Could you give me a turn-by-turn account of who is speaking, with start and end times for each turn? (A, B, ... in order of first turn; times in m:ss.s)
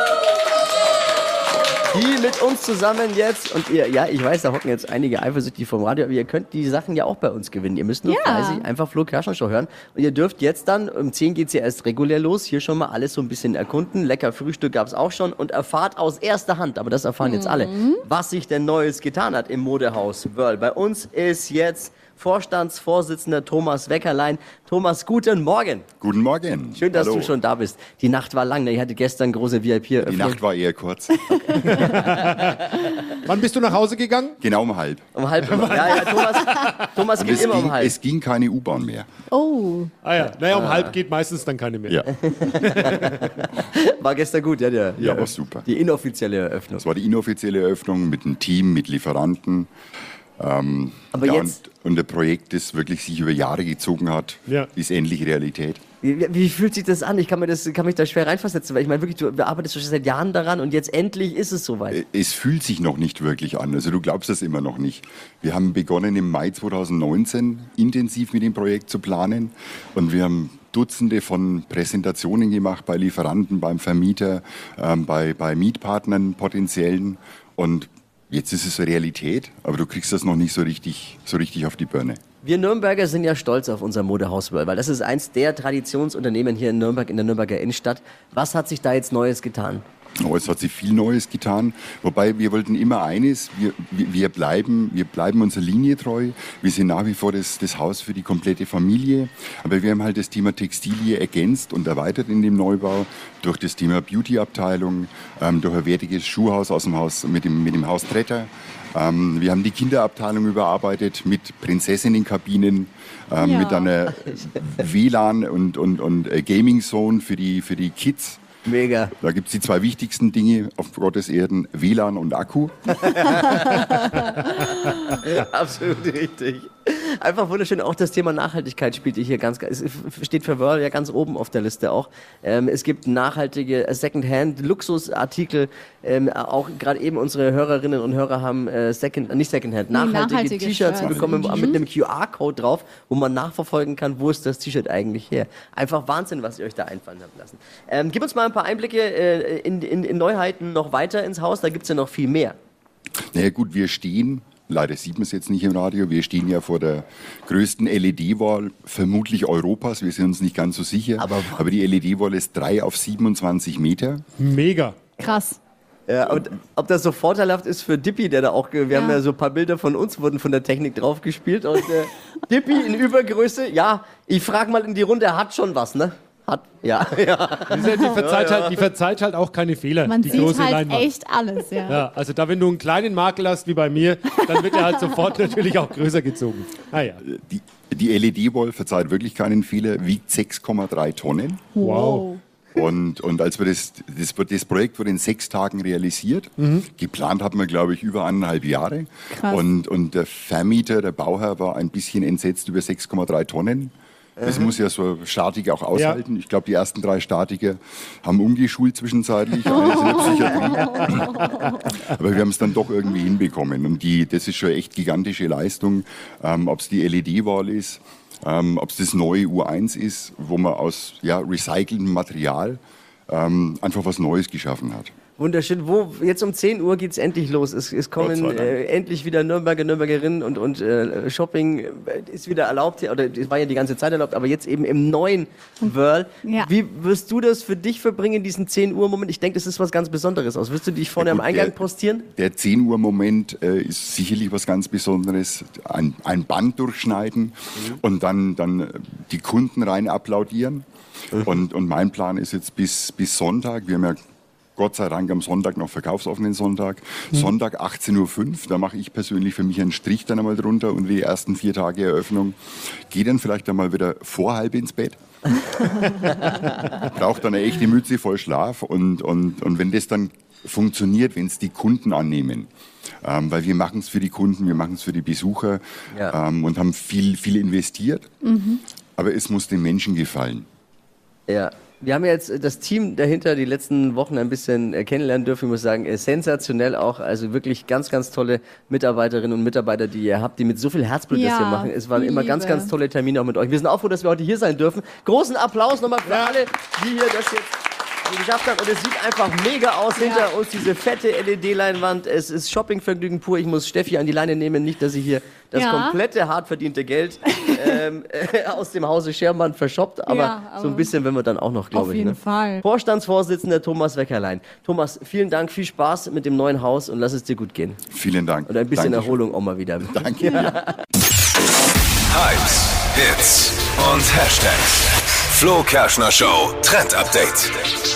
0:01.9-0:25.9 A
0:08.0-0:08.6 B
0:17.2-0:18.0 B
0:26.0-0:27.3 C
0:26.8-0:30.4 A
0:30.0-0:31.8 C
0:31.7-0:32.6 D
0:33.2-0:34.4 D
0:34.4-0:35.0 C
0:35.1-0:38.0 A
0:35.4-0:36.9 D
0:37.2-0:39.1 C
0:39.3-0:39.9 B
0:40.0-0:43.1 D
0:40.5-0:40.9 A
0:42.4-0:43.0 A
0:42.6-0:43.0 C
0:43.8-0:46.8 A
0:45.0-0:45.6 C
0:46.8-0:49.7 C
0:50.4-0:55.8 C
0:51.1-0:51.6 A
0:56.0-1:02.0 A
1:01.9-1:22.2 C
1:22.4-1:29.8 A
1:30.2-1:58.5 C
1:53.4-1:53.9 B
1:58.6-1:59.1 A
1:59.2-2:03.5 C
2:03.0-2:32.6 A
2:19.9-2:21.8 B
2:21.0-2:21.7 C
2:33.3-2:44.2 C
2:41.2-2:41.6 A
2:44.4-2:45.0 D
2:45.2-2:45.6 B
2:46.1-2:58.8 A
2:48.9-2:49.2 B
2:57.7-3:01.1 D
3:00.0-3:02.0 B
3:01.9-3:07.2 D
3:07.2-3:11.7 C
3:11.8-3:12.4 B
3:11.8-3:12.3 D
3:12.7-3:31.5 C
3:16.6-3:16.8 D
3:19.3-3:19.6 B
3:25.9-3:26.2 D
3:30.7-3:31.0 B
3:32.0-3:45.1 C
3:45.4-4:02.2 A
3:48.2-3:48.8 C
3:56.4-3:56.7 B
4:01.2-4:14.2 C
4:14.8-4:25.2 C
4:27.0-4:32.7 C
4:33.2-4:38.3 C
4:38.4-4:38.8 B
4:39.2-4:40.7 C
4:41.5-5:18.0 A
4:51.3-4:52.9 B
4:56.2-4:56.6 D
5:00.2-5:00.4 B
5:05.7-5:06.2 B
5:10.3-5:11.1 B
5:11.9-5:12.8 B
5:18.1-5:19.4 C
5:18.7-5:20.9 A
5:20.0-5:20.9 C
5:22.3-5:27.9 E